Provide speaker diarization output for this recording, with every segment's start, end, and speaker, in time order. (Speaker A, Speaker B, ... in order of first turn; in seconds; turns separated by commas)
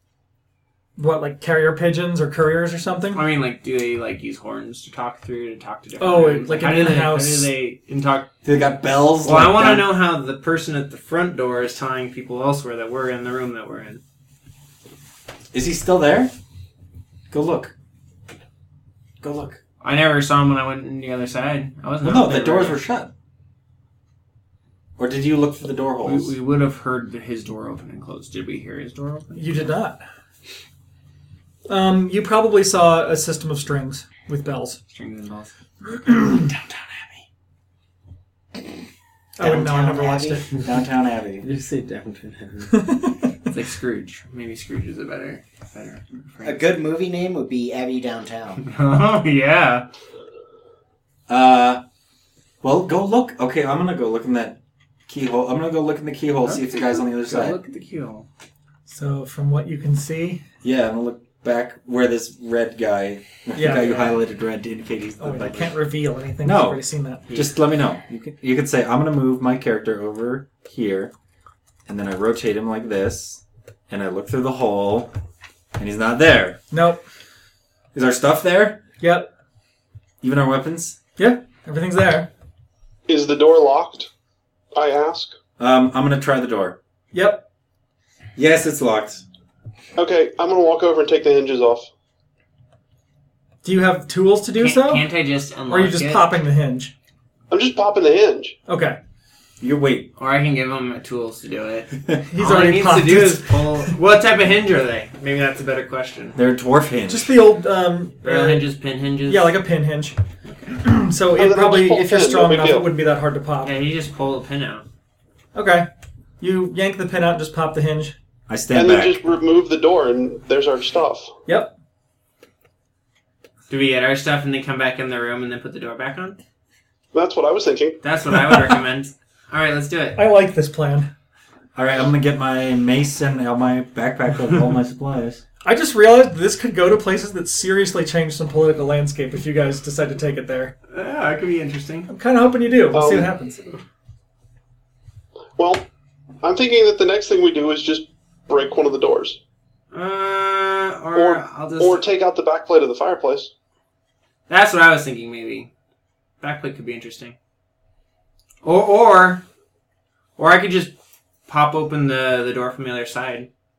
Speaker A: 1.0-3.2, Speaker B: 3.1-8.3, Speaker A: 6.0-7.5, Speaker C: 8.4-10.0, Speaker B: 9.2-14.0, Speaker C: 15.5-16.3, Speaker C: 17.3-17.7, Speaker C: 19.2-19.6, Speaker B: 19.8-22.8, Speaker C: 22.0-23.1, Speaker C: 25.0-26.3, Speaker B: 26.0-29.7, Speaker A: 29.3-30.0, Speaker A: 31.7-34.8, Speaker B: 34.9-35.5, Speaker A: 35.9-36.5, Speaker B: 36.4-37.0, Speaker A: 39.4-40.5, Speaker D: 39.4-40.5, Speaker C: 40.6-41.5, Speaker B: 41.4-42.8, Speaker A: 42.7-43.3, Speaker B: 43.5-46.6, Speaker D: 46.4-48.6, Speaker B: 48.6-49.9, Speaker C: 51.3-51.8, Speaker C: 52.6-57.6, Speaker B: 56.4-58.3, Speaker A: 58.9-60.4, Speaker C: 60.6-65.8, Speaker A: 63.5-64.1, Speaker A: 65.2-67.2, Speaker C: 66.4-71.1, Speaker B: 67.3-67.5, Speaker C: 71.8-75.1, Speaker C: 75.8-76.6, Speaker A: 76.7-77.0, Speaker C: 77.9-78.8, Speaker A: 79.0-79.3, Speaker C: 80.2-81.0, Speaker A: 81.2-82.3, Speaker E: 83.1-84.1, Speaker E: 84.7-85.3, Speaker C: 85.6-86.8, Speaker A: 87.1-87.5, Speaker C: 88.3-89.2, Speaker E: 90.0-91.9, Speaker A: 93.6-95.1, Speaker B: 94.5-96.3, Speaker A: 95.7-96.9, Speaker E: 97.5-98.6, Speaker A: 98.7-99.0, Speaker C: 99.6-100.1, Speaker B: 100.2-106.4, Speaker A: 102.3-103.9, Speaker C: 106.3-107.4, Speaker A: 107.1-108.7, Speaker B: 108.2-109.5, Speaker A: 109.3-110.2, Speaker B: 110.4-110.8, Speaker A: 110.8-113.7, Speaker E: 111.3-112.9, Speaker B: 113.6-114.8, Speaker A: 115.5-115.9, Speaker A: 116.4-118.2, Speaker C: 118.5-119.2, Speaker E: 118.7-121.3, Speaker A: 121.5-121.7, Speaker B: 123.7-126.4, Speaker E: 127.1-128.0, Speaker B: 128.0-130.2, Speaker A: 130.2-131.1, Speaker C: 131.7-135.4, Speaker A: 135.6-140.7, Speaker B: 140.9-142.1, Speaker A: 142.1-143.6, Speaker E: 142.9-143.3, Speaker E: 145.6-145.8, Speaker E: 146.4-149.4, Speaker B: 149.9-152.0, Speaker E: 151.1-153.5, Speaker B: 154.5-155.7, Speaker B: 156.4-157.3, Speaker B: 158.6-159.4, Speaker B: 160.4-160.9, Speaker B: 161.5-163.5